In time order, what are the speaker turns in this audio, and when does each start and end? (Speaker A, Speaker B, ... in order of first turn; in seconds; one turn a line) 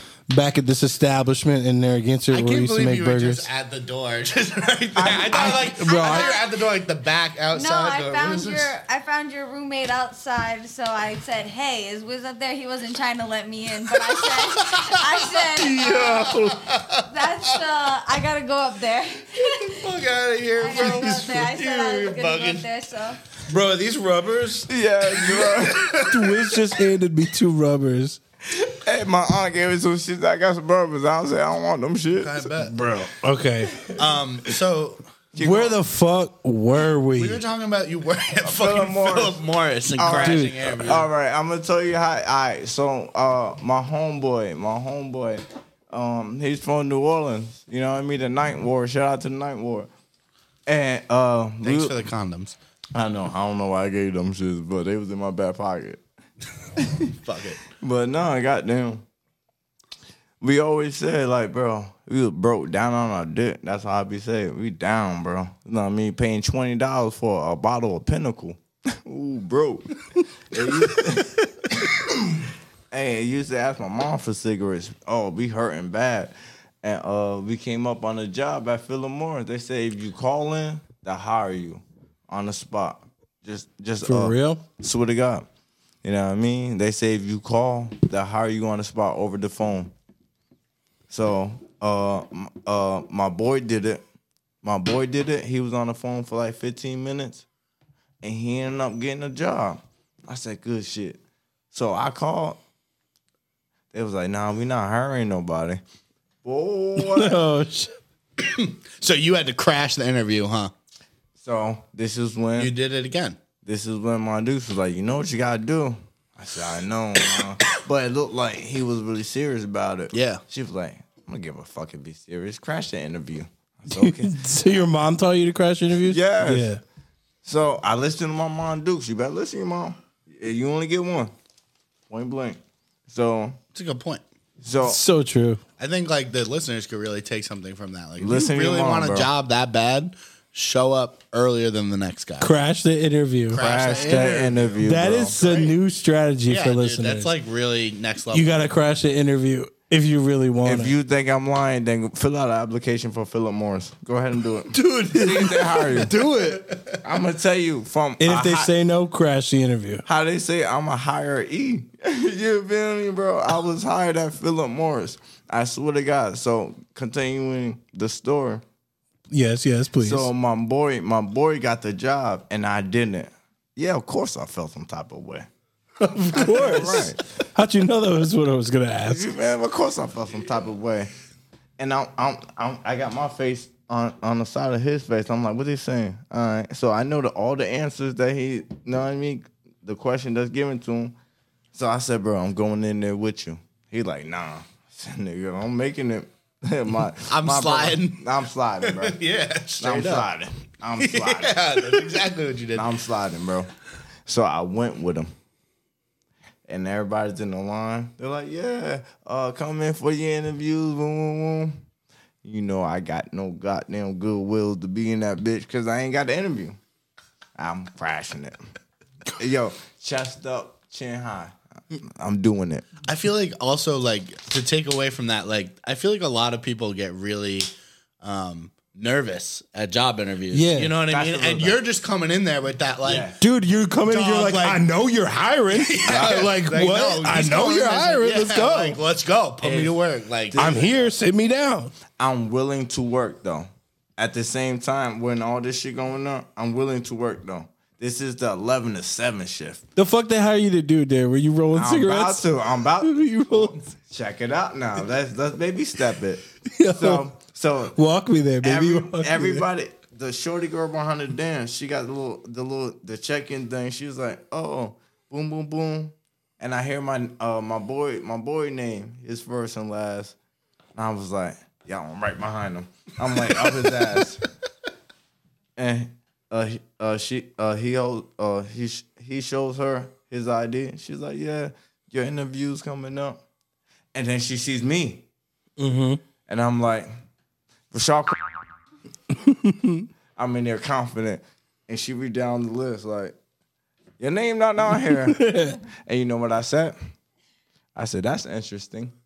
Speaker A: 0.3-3.5
Speaker B: 2.3-8.7
Speaker C: 5.0-5.5
Speaker A: 5.0-6.4
Speaker D: 5.5-6.5
Speaker D: 7.5-19.9
Speaker B: 14.6-17.5
Speaker A: 15.8-16.5
Speaker B: 19.4-22.7
Speaker D: 20.6-23.2
Speaker A: 23.5-24.6
Speaker B: 23.5-24.6
Speaker C: 24.7-26.1
Speaker B: 25.2-26.3
Speaker A: 26.1-28.2
Speaker C: 28.5-32.5
Speaker B: 32.2-32.8
Speaker A: 32.7-33.9
Speaker B: 33.9-35.0
Speaker C: 35.3-35.8
Speaker A: 35.4-37.4
Speaker B: 37.1-41.1
Speaker C: 38.5-39.4
Speaker C: 40.0-49.9
Speaker A: 40.2-40.6
Speaker C: 50.7-52.0
Speaker B: 51.6-52.6
Speaker C: 52.9-56.0
Speaker C: 56.8-57.2
Speaker B: 57.2-57.6
Speaker C: 57.7-59.0
Speaker C: 60.4-70.0
Speaker C: 70.5-85.5
Speaker A: 84.0-84.6
Speaker C: 86.0-89.9
Speaker C: 91.1-94.0
Speaker C: 94.6-97.5
Speaker C: 98.2-101.2
Speaker C: 101.7-102.6
Speaker C: 103.9-105.8
Speaker C: 106.4-107.4
Speaker A: 107.0-108.0
Speaker B: 108.4-110.7
Speaker C: 111.4-112.7
Speaker B: 112.6-113.4
Speaker C: 113.6-124.4
Speaker B: 120.1-120.4
Speaker A: 123.9-126.8
Speaker C: 126.0-126.7
Speaker C: 127.4-131.3
Speaker C: 132.1-133.6
Speaker B: 133.7-134.2
Speaker C: 134.6-135.0
Speaker A: 134.8-135.6
Speaker B: 135.8-142.5
Speaker C: 138.2-139.3
Speaker A: 142.4-144.3
Speaker B: 143.5-144.8
Speaker C: 143.5-145.7
Speaker A: 144.8-147.3
Speaker B: 146.5-148.6
Speaker A: 148.3-150.9
Speaker C: 150.7-156.2
Speaker A: 154.7-156.8
Speaker C: 157.0-158.7
Speaker A: 158.2-160.0
Speaker C: 160.1-168.6
Speaker A: 169.3-170.3
Speaker C: 170.0-175.5
Speaker A: 176.0-179.3
Speaker C: 176.3-177.2
Speaker C: 179.1-181.1
Speaker C: 181.8-191.2
Speaker C: 191.7-199.2
Speaker B: 197.3-198.2
Speaker B: 198.8-200.3
Speaker C: 199.8-202.1
Speaker B: 201.0-202.9
Speaker C: 202.7-203.7
Speaker C: 204.3-205.3
Speaker C: 206.7-211.8
Speaker C: 212.4-216.8
Speaker C: 217.6-218.6
Speaker C: 219.3-222.9
Speaker B: 223.1-227.7
Speaker B: 228.2-233.3
Speaker A: 230.5-230.9
Speaker C: 231.1-231.8
Speaker C: 233.0-233.4
Speaker A: 233.4-239.0
Speaker B: 234.1-234.8
Speaker B: 235.7-240.8
Speaker C: 239.6-239.9
Speaker C: 240.5-241.1
Speaker A: 240.6-241.9
Speaker C: 242.2-249.8
Speaker A: 250.0-252.5
Speaker C: 251.7-258.0
Speaker A: 253.0-253.9
Speaker A: 256.7-257.2
Speaker A: 258.0-259.7
Speaker C: 258.6-270.4
Speaker C: 270.9-274.4
Speaker C: 275.8-283.4
Speaker C: 284.1-285.3
Speaker A: 285.8-286.2
Speaker C: 286.5-287.1
Speaker C: 287.9-288.4
Speaker A: 289.4-290.1
Speaker C: 290.4-293.4
Speaker C: 294.2-295.5
Speaker A: 295.1-295.8
Speaker C: 296.1-297.0
Speaker C: 297.9-299.1